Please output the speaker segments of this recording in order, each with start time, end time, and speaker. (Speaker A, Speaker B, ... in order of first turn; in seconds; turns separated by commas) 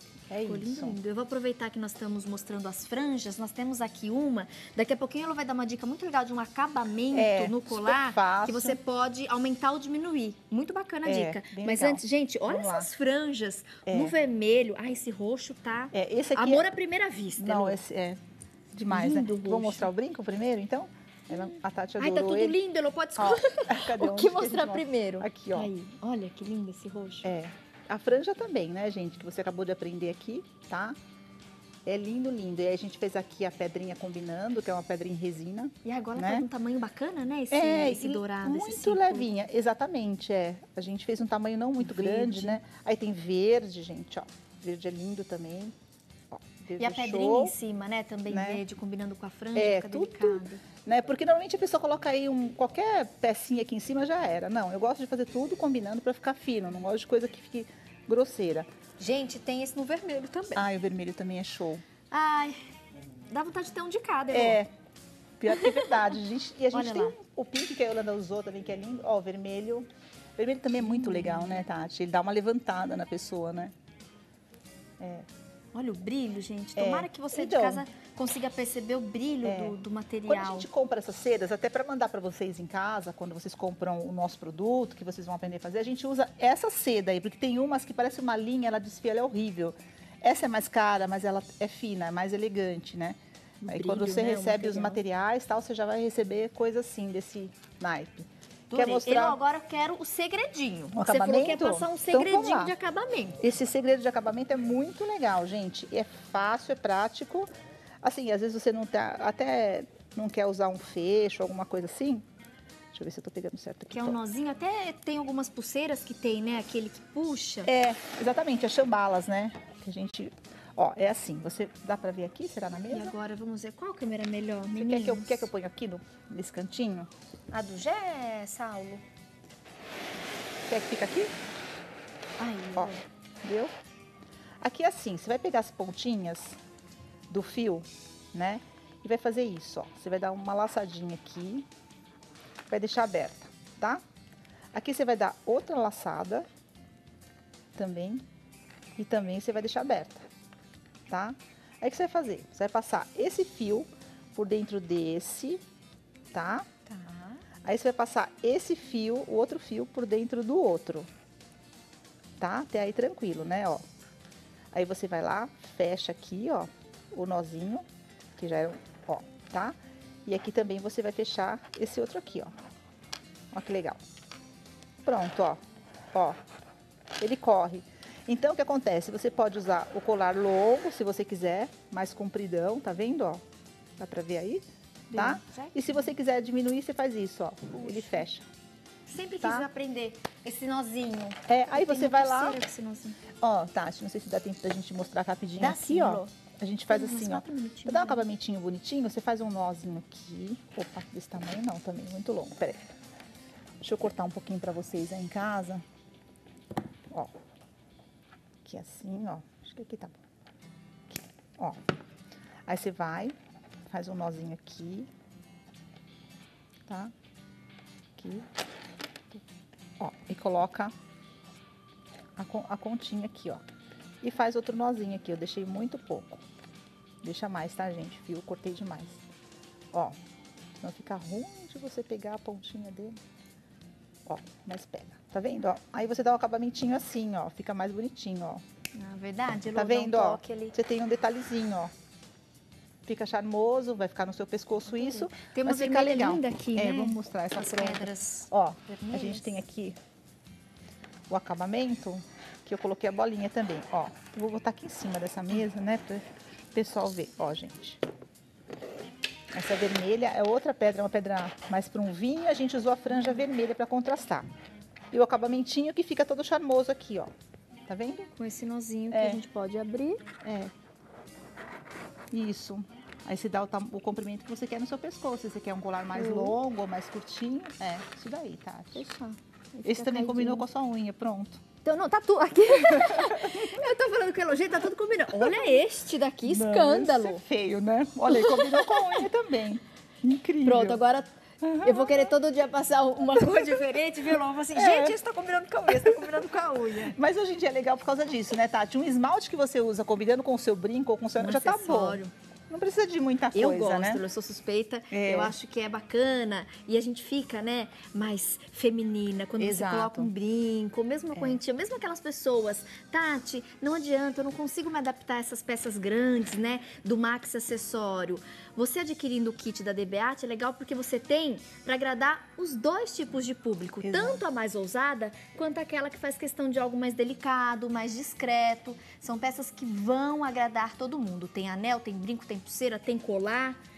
Speaker A: 0.3-1.0, Speaker B: 0.4-17.8, Speaker A: 7.1-8.8, Speaker A: 11.0-12.9, Speaker A: 13.8-14.1, Speaker A: 15.9-16.6, Speaker A: 17.4-18.2, Speaker A: 18.7-22.6, Speaker B: 18.9-19.9, Speaker B: 22.0-27.3, Speaker A: 23.2-25.7, Speaker A: 27.2-30.9, Speaker A: 31.8-36.5, Speaker B: 35.8-39.3, Speaker A: 37.5-45.7, Speaker B: 41.8-42.6, Speaker A: 46.3-47.5, Speaker B: 46.8-50.6, Speaker A: 48.3-48.6, Speaker A: 49.5-58.7, Speaker B: 59.0-60.6, Speaker A: 60.5-61.8, Speaker B: 62.1-62.6, Speaker B: 63.3-64.6, Speaker A: 64.3-64.7, Speaker A: 65.4-73.7, Speaker B: 65.5-65.9, Speaker B: 66.7-67.2, Speaker B: 70.8-71.6, Speaker A: 75.0-75.3, Speaker B: 75.7-80.7, Speaker A: 76.8-77.8, Speaker A: 79.4-79.8, Speaker A: 80.3-99.4, Speaker B: 93.6-95.0, Speaker B: 98.7-103.4, Speaker A: 100.9-102.7, Speaker A: 103.4-107.5, Speaker A: 108.0-112.2, Speaker A: 112.9-114.2, Speaker B: 113.9-117.7, Speaker A: 117.7-123.2, Speaker B: 122.9-125.5, Speaker A: 124.7-127.1, Speaker B: 127.5-129.0, Speaker A: 130.7-131.3, Speaker B: 132.4-133.0, Speaker A: 133.4-133.7, Speaker A: 134.6-136.6, Speaker A: 137.3-141.7, Speaker A: 142.7-144.0, Speaker A: 144.7-146.4, Speaker A: 147.8-148.2, Speaker A: 149.0-150.3, Speaker A: 151.1-155.6, Speaker A: 156.3-156.7, Speaker B: 156.9-157.4, Speaker A: 157.6-161.1, Speaker A: 162.4-163.8, Speaker A: 164.7-167.8, Speaker A: 168.3-169.7, Speaker A: 170.2-172.5, Speaker A: 173.5-174.0, Speaker A: 175.0-175.6, Speaker A: 177.2-183.4, Speaker A: 184.0-188.4, Speaker B: 185.1-186.1, Speaker B: 187.8-188.2, Speaker B: 189.1-193.2, Speaker A: 189.4-189.7, Speaker A: 191.5-192.6, Speaker A: 193.4-202.9, Speaker B: 195.6-196.3, Speaker B: 196.9-198.3, Speaker A: 203.8-205.8, Speaker A: 208.6-210.2, Speaker A: 211.1-211.8, Speaker A: 212.7-213.3, Speaker A: 213.9-215.1, Speaker A: 218.2-218.4, Speaker A: 220.0-220.9, Speaker A: 222.3-223.6, Speaker A: 224.2-226.4, Speaker A: 227.2-229.2, Speaker A: 230.8-233.2, Speaker A: 234.2-238.6, Speaker B: 238.9-240.8, Speaker A: 239.7-241.9, Speaker A: 243.1-249.9, Speaker B: 244.9-249.6, Speaker A: 251.3-258.0, Speaker A: 259.5-264.5, Speaker A: 265.1-267.3, Speaker A: 267.9-268.3, Speaker B: 268.4-270.2, Speaker A: 269.1-269.4, Speaker A: 270.4-270.7, Speaker A: 272.3-279.0, Speaker B: 276.1-276.6, Speaker B: 278.9-280.6, Speaker A: 279.8-281.6, Speaker B: 281.8-287.4, Speaker A: 282.7-283.7, Speaker A: 286.5-291.0, Speaker B: 288.3-289.2, Speaker B: 290.6-297.2, Speaker A: 291.6-292.3, Speaker A: 294.7-295.2, Speaker A: 295.9-296.4, Speaker A: 297.0-304.2, Speaker B: 301.4-302.3, Speaker B: 303.5-333.8, Speaker A: 305.1-305.6, Speaker A: 309.6-310.3, Speaker A: 311.3-311.6, Speaker A: 324.0-324.4